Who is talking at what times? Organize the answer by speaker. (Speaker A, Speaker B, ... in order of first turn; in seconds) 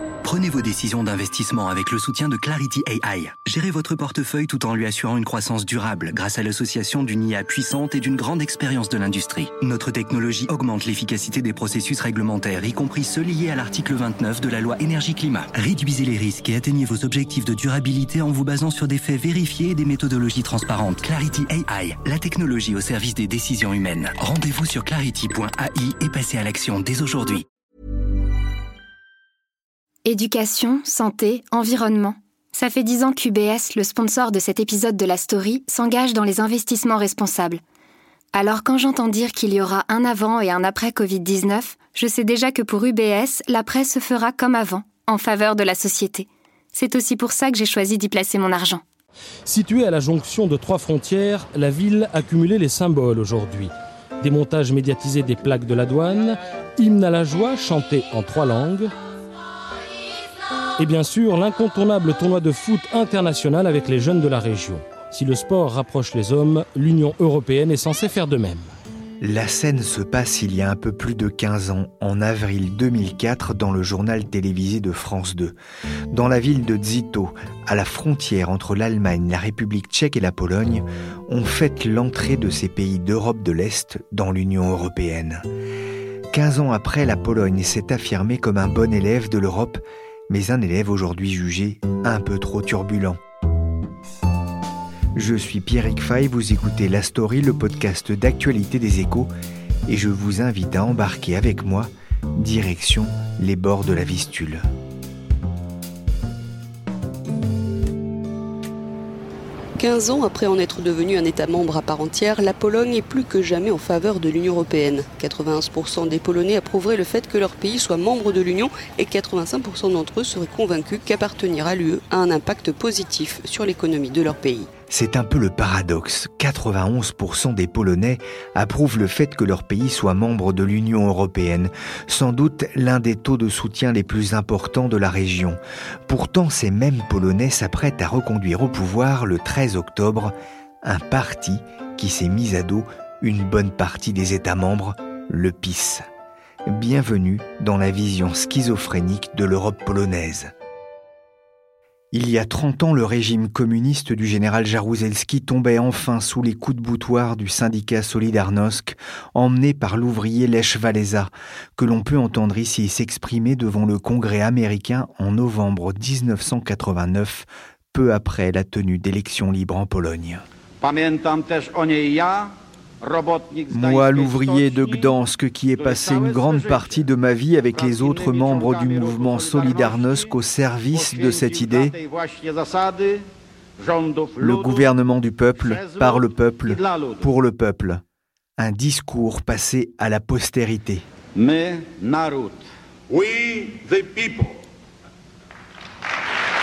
Speaker A: 0.2-27.4
Speaker B: 30.0-37.6, 38.3-48.8
Speaker C: 49.5-58.9, 60.8-68.7
Speaker D: 69.2-75.5, 76.1-85.4, 86.3-93.2, 95.1-99.3, 99.9-104.6, 124.9-146.0, 146.7-150.5, 152.1-170.4, 173.7-181.9, 184.4-188.0, 188.6-191.0
Speaker E: 109.8-124.7
Speaker F: 170.8-172.5, 173.0-175.2, 175.8-177.0, 177.7-180.3, 180.9-183.2, 183.8-184.9, 185.6-187.3, 191.3-194.5